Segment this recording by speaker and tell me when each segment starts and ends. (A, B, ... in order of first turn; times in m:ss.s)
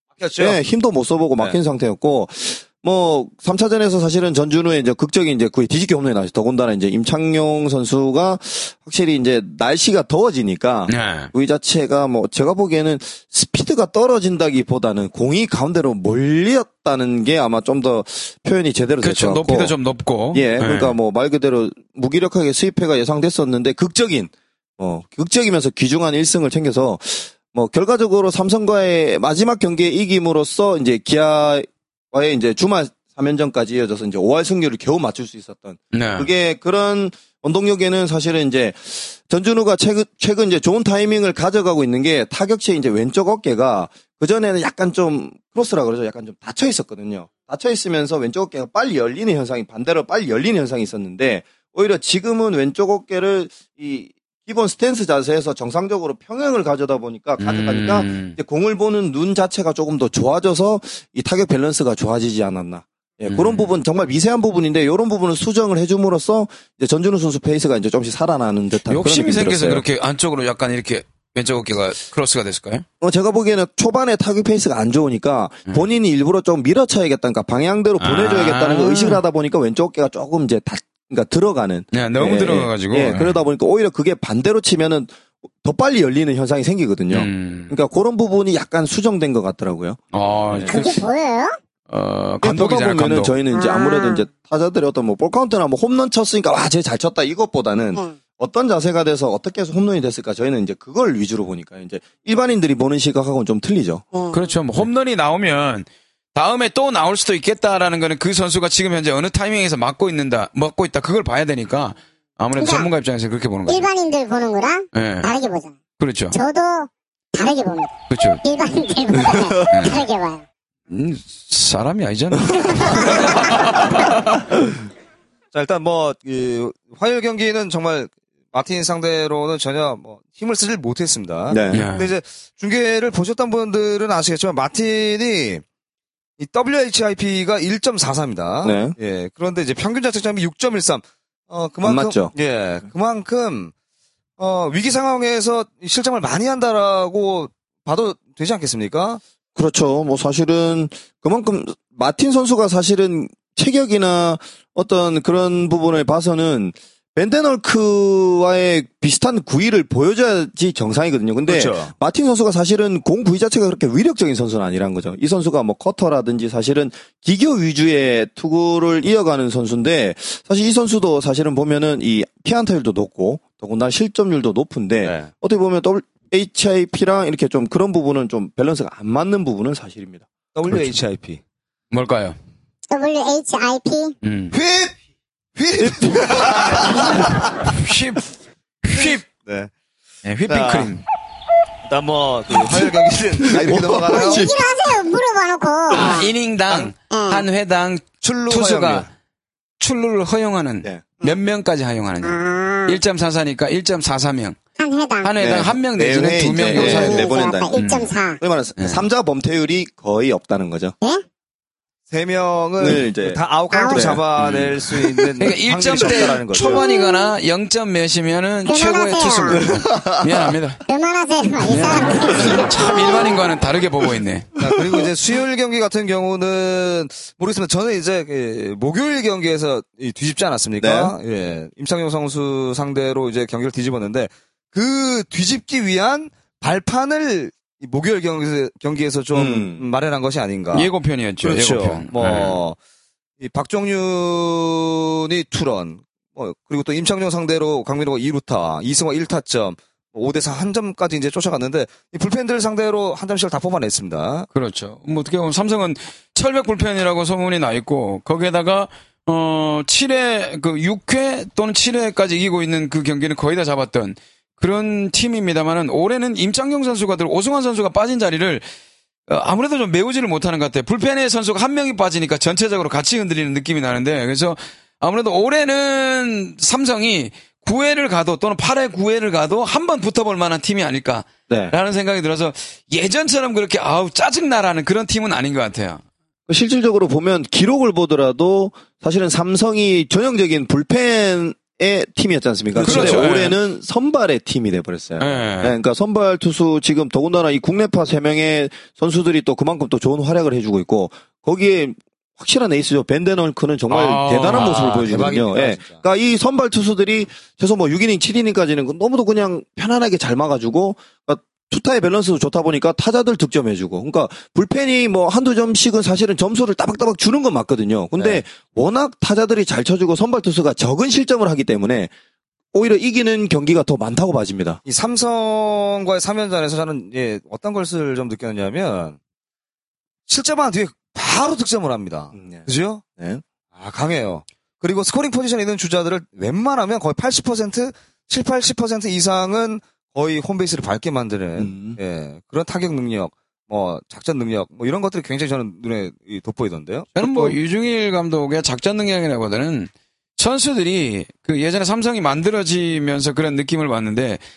0:00.2-0:00.6 A
0:00.4-0:19.7 B
0:10.9-0:11.3 C
0:19.0-0:20.9 C
0:20.3-1:09.8 B
0:35.9-0:36.3 C
0:57.4-0:58.4 C
1:03.3-1:03.7 C
1:08.9-1:12.8 C
1:13.0-1:30.0 B
1:18.0-1:19.2 C
1:21.9-1:23.4 C
1:27.1-1:27.8 C
1:30.1-1:31.0 C
1:30.5-1:30.8 B
1:30.7-1:31.6 D
1:31.9-1:33.3 C
1:32.4-1:44.0 B
1:33.5-1:34.3 D
1:44.1-1:44.4 D
1:44.3-1:53.9 C
1:52.6-1:52.9 D
1:53.7-1:55.8 D
1:54.9-1:55.3 C
1:56.0-1:56.4 C
1:56.3-2:00.4 D
1:58.1-1:58.4 C
1:59.7-2:00.0 C
2:00.9-2:04.4 C
2:02.6-2:03.1 D
2:05.5-2:15.6 A
2:11.5-2:11.8 B
2:11.7-2:12.1 C
2:16.4-2:23.7 A
2:18.6-2:19.0 B
2:21.8-2:22.3 B
2:24.4-2:29.2 A
2:29.5-3:00.2 B
2:41.5-2:41.9 A
2:55.0-2:55.3 A
3:00.5-3:01.4 A
3:00.7-3:00.9 C
3:01.9-3:02.4 C
3:02.9-3:04.1 D
3:04.2-3:04.5 C
3:04.5-3:05.0 A
3:05.6-3:07.7 A
3:05.8-3:07.1 B
3:07.7-3:08.2 C
3:08.8-3:09.2 C
3:09.0-3:09.7 A
3:10.2-3:11.0 C
3:10.5-3:10.9 A
3:11.8-3:14.5 A
3:13.4-3:14.7 B
3:14.1-3:16.3 D
3:15.9-3:19.1 C
3:17.1-3:17.4 D
3:18.2-3:19.1 A
3:19.8-3:24.6 C
3:22.2-3:23.0 D
3:24.8-3:25.3 D
3:25.2-3:28.1 C
3:25.4-3:27.8 B
3:26.7-3:28.4 D
3:28.4-3:30.9 B
3:28.8-3:29.0 C
3:32.1-3:36.8 A
3:32.8-3:33.4 B
3:33.7-3:34.2 D
3:33.9-3:34.2 B
3:34.4-3:34.8 C
3:35.4-3:40.8 C
3:36.6-3:37.3 D
3:38.6-3:39.6 D
3:39.6-3:40.5 B
3:40.9-3:43.4 D
3:41.6-3:44.5 C
3:44.6-4:00.9 A
3:50.8-3:51.1 B
3:59.3-3:59.8 B
4:00.7-4:02.6 C
4:01.4-4:02.8 A
4:03.4-4:14.5 A
4:14.5-4:28.6 C
4:29.3-4:46.0 C
4:41.5-4:41.8 B
4:46.5-5:22.1 B
4:52.8-4:53.3 A
4:52.8-4:53.6 C
4:55.2-4:55.8 C
5:03.9-5:05.3 C
5:04.5-5:06.0 A
5:18.2-5:18.4 A
5:22.7-5:24.8 B
5:24.8-5:29.2 A
5:30.3-5:33.0 A
5:32.3-5:32.6 B
5:33.7-5:47.5 A
5:41.6-5:42.0 B
5:47.2-5:54.4 C